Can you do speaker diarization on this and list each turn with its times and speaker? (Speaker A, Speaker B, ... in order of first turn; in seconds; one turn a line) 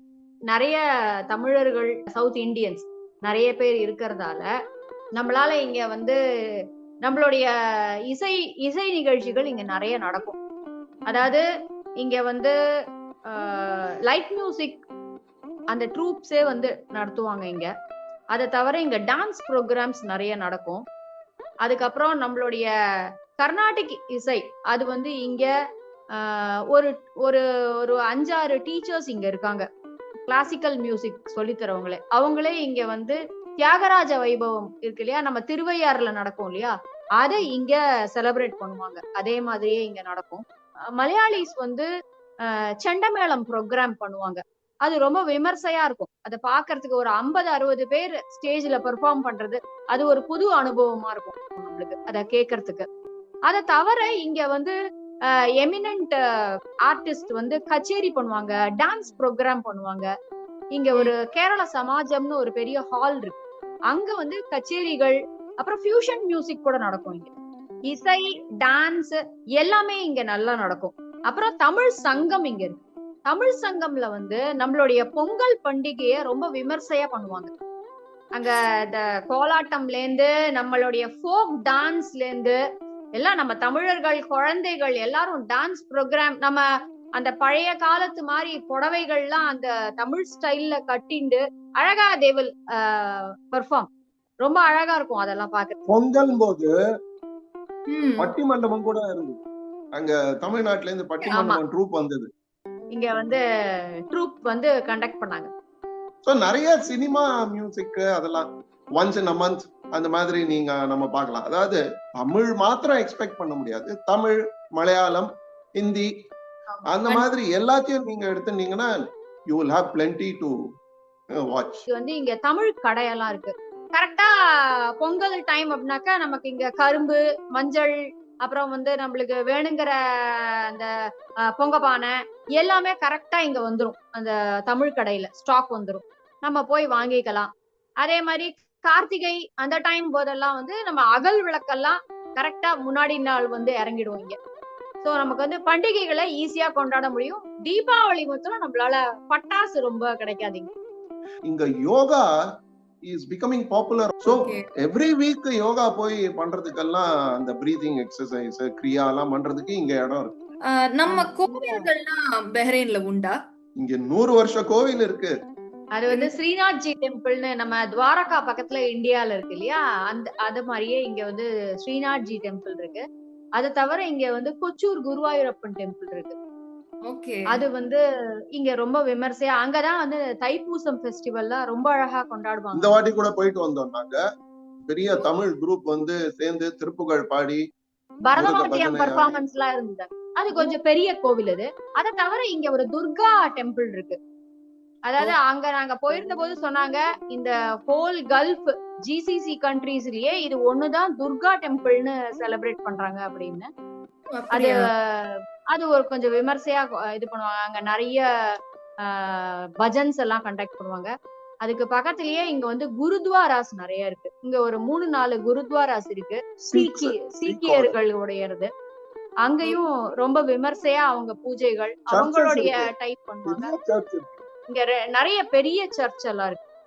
Speaker A: 0.5-4.5
Speaker A: 5.2-6.2
Speaker A: 7.0-7.5
Speaker A: 8.1-10.4
Speaker A: 11.1-11.4
Speaker A: 12.0-12.5
Speaker A: 13.3-14.8
Speaker A: 15.7-17.7
Speaker A: 18.3-20.8
Speaker A: 21.6-22.7
Speaker A: 23.4-25.5
Speaker A: 26.1-29.7
Speaker A: 30.3-40.4
Speaker A: 41.0-41.9
Speaker A: 42.4-52.9
Speaker A: 53.5-54.7
Speaker A: 55.6-56.2
Speaker A: 56.8-60.1
Speaker A: 60.7-63.4
Speaker A: 63.9-67.3
Speaker A: 67.9-77.5
Speaker A: 78.3-82.6
Speaker A: 83.2-86.6
Speaker A: 87.2-93.9
Speaker A: 94.4-95.8
Speaker B: 95.9-96.7
Speaker C: 97.9-98.3
Speaker B: 98.2-99.4
Speaker B: 99.9-102.3
Speaker A: 101.3-101.6
Speaker A: 102.9-103.4
Speaker A: 104.1-105.5
Speaker B: 106.2-116.1
Speaker B: 116.9-120.6
Speaker B: 121.3-121.8
Speaker A: 121.9-124.3
Speaker A: 125.0-130.9
Speaker A: 131.5-144.4
Speaker A: 145.0-150.7
Speaker B: 151.5-152.3
Speaker B: 153.0-160.4
Speaker C: 154.2-154.6
Speaker C: 160.7-163.4
Speaker A: 161.1-161.9
Speaker B: 163.8-165.3
Speaker A: 165.9-173.0
Speaker C: 166.1-166.3
Speaker A: 173.6-176.3
Speaker C: 177.1-177.6
Speaker A: 177.5-178.0
Speaker A: 178.5-183.0
Speaker B: 182.7-184.2
Speaker B: 184.9-187.6
Speaker A: 188.2-194.2
Speaker B: 188.3-189.4
Speaker A: 195.1-203.7
Speaker C: 204.3-204.8
Speaker A: 204.5-208.3
Speaker A: 209.0-211.1
Speaker A: 211.6-218.7
Speaker B: 216.6-218.0
Speaker A: 219.4-223.7
Speaker B: 222.1-222.9
Speaker B: 223.4-224.4
Speaker A: 224.7-226.6